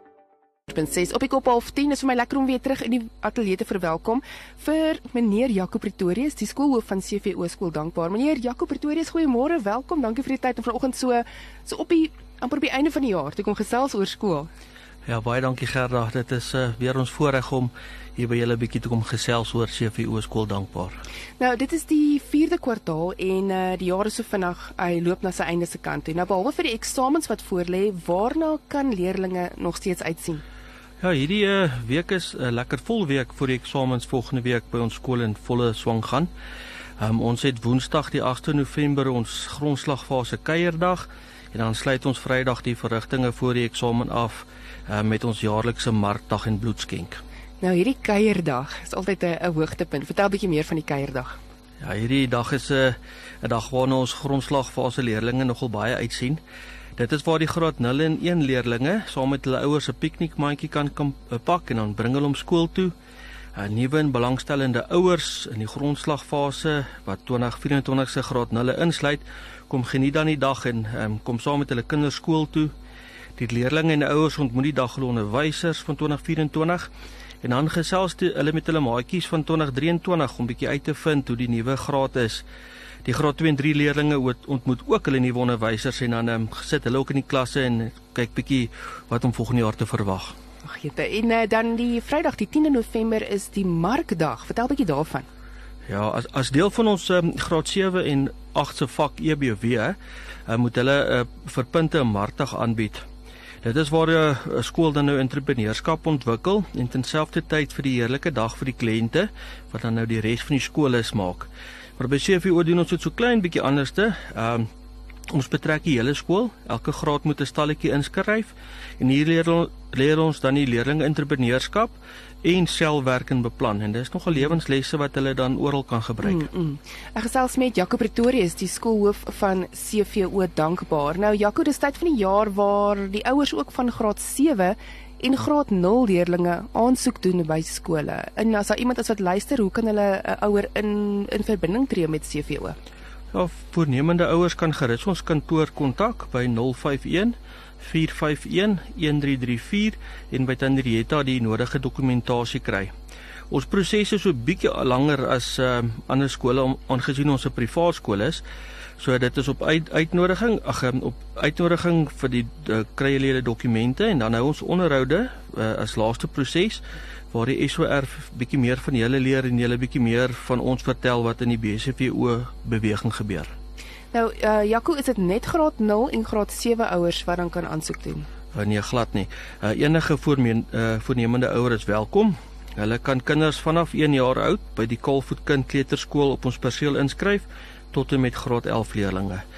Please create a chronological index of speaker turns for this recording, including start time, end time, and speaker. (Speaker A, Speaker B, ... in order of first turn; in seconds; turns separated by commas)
Speaker A: 0.7-14.5, Speaker B: 15.1-21.0, Speaker A: 21.4-30.4, Speaker B: 31.0-36.3, Speaker B: 37.0-47.2, Speaker A: 47.6-51.4, Speaker B: 51.8-56.4, Speaker B: 57.0-62.9, Speaker B: 63.5-72.7, Speaker B: 73.4-76.9, Speaker B: 77.4-82.4, Speaker B: 83.0-90.3, Speaker A: 90.6-95.3, Speaker B: 95.9-100.0, Speaker B: 100.5-103.0, Speaker B: 103.6-114.7, Speaker B: 115.3-126.5, Speaker A: 126.2-142.8, Speaker B: 143.3-152.9, Speaker B: 153.5-158.4, Speaker B: 159.0-173.5, Speaker A: 174.1-178.3, Speaker B: 178.5-189.4